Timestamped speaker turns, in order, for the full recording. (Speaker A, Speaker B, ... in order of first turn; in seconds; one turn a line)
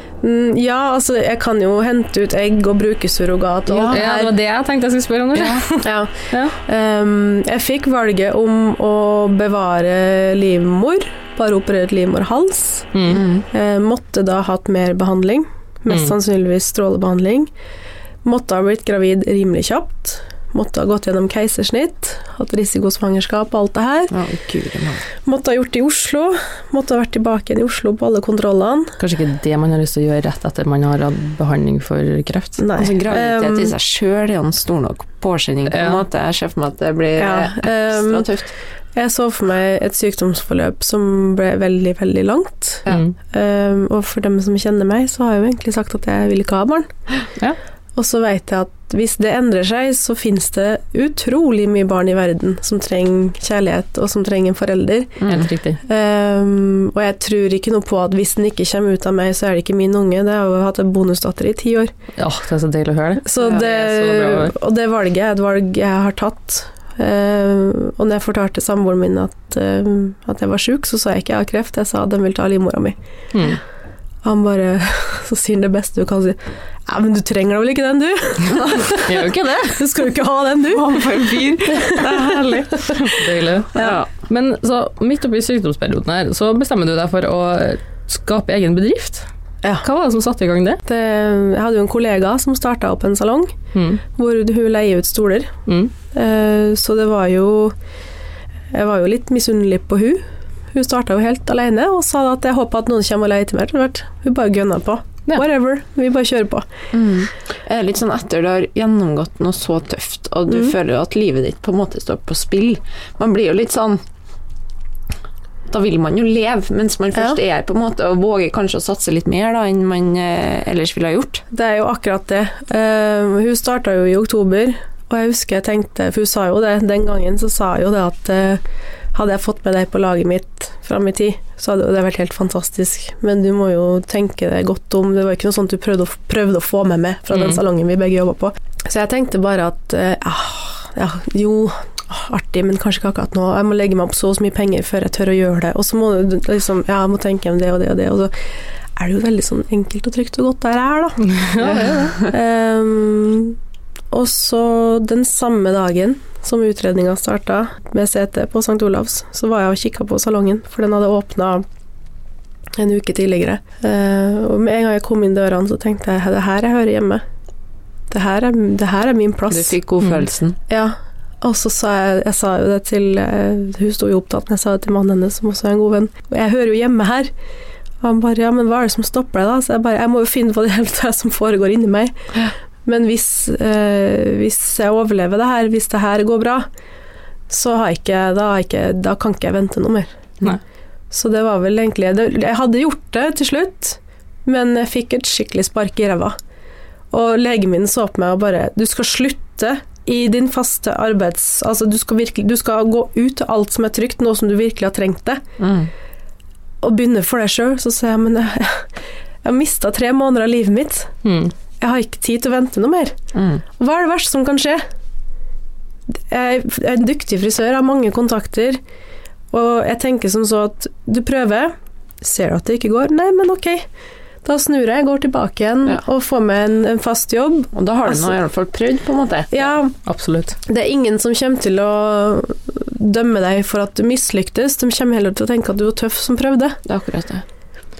Speaker A: 0.2-4.3
Speaker B: 3.7-4.0
Speaker C: 3.9-6.5
Speaker B: 5.3-5.7
Speaker A: 5.7-12.9
Speaker C: 12.9-13.2
Speaker B: 13.1-13.4
Speaker A: 13.5-17.5
Speaker A: 18.2-24.1
Speaker B: 24.1-25.0
Speaker A: 25.2-29.0
Speaker C: 29.0-32.6
Speaker A: 32.6-33.7
Speaker B: 32.8-38.5
Speaker C: 35.7-36.0
Speaker A: 37.2-38.3
Speaker A: 38.9-46.9
Speaker A: 47.9-61.9
Speaker B: 55.2-55.5
Speaker C: 55.3-55.8
Speaker C: 62.1-64.5
Speaker A: 63.2-73.0
Speaker C: 73.3-73.6
Speaker A: 74.2-81.1
Speaker C: 79.0-79.8
Speaker B: 80.7-82.9
Speaker A: 81.7-83.0
Speaker C: 83.0-89.2
Speaker A: 83.7-84.0
Speaker B: 83.7-84.1
Speaker C: 89.8-90.8
Speaker A: 90.8-93.5
Speaker C: 93.7-94.0
Speaker A: 94.1-95.5
Speaker C: 95.7-95.9
Speaker A: 96.1-97.7
Speaker A: 98.7-106.7
Speaker B: 106.9-114.0
Speaker A: 110.5-110.8
Speaker B: 115.7-121.4
Speaker A: 121.5-148.4
Speaker C: 137.3-137.6
Speaker A: 148.9-153.6
Speaker C: 151.2-152.2
Speaker A: 154.1-161.6
Speaker A: 162.8-167.2
Speaker A: 168.1-169.8
Speaker B: 169.5-170.6
Speaker A: 170.7-177.3
Speaker A: 178.0-182.1
Speaker A: 182.8-186.7
Speaker A: 187.5-190.1
Speaker A: 191.1-196.3
Speaker A: 197.1-205.4
Speaker B: 205.6-205.9
Speaker A: 206.8-208.9
Speaker A: 209.4-211.1
Speaker C: 211.2-211.5
Speaker A: 211.8-213.2
Speaker B: 213.3-213.6
Speaker A: 213.8-214.8
Speaker A: 216.1-218.8
Speaker A: 219.5-223.9
Speaker A: 224.4-228.3
Speaker B: 227.7-229.7
Speaker A: 229.5-229.9
Speaker C: 230.0-230.6
Speaker A: 230.7-236.8
Speaker B: 236.8-237.4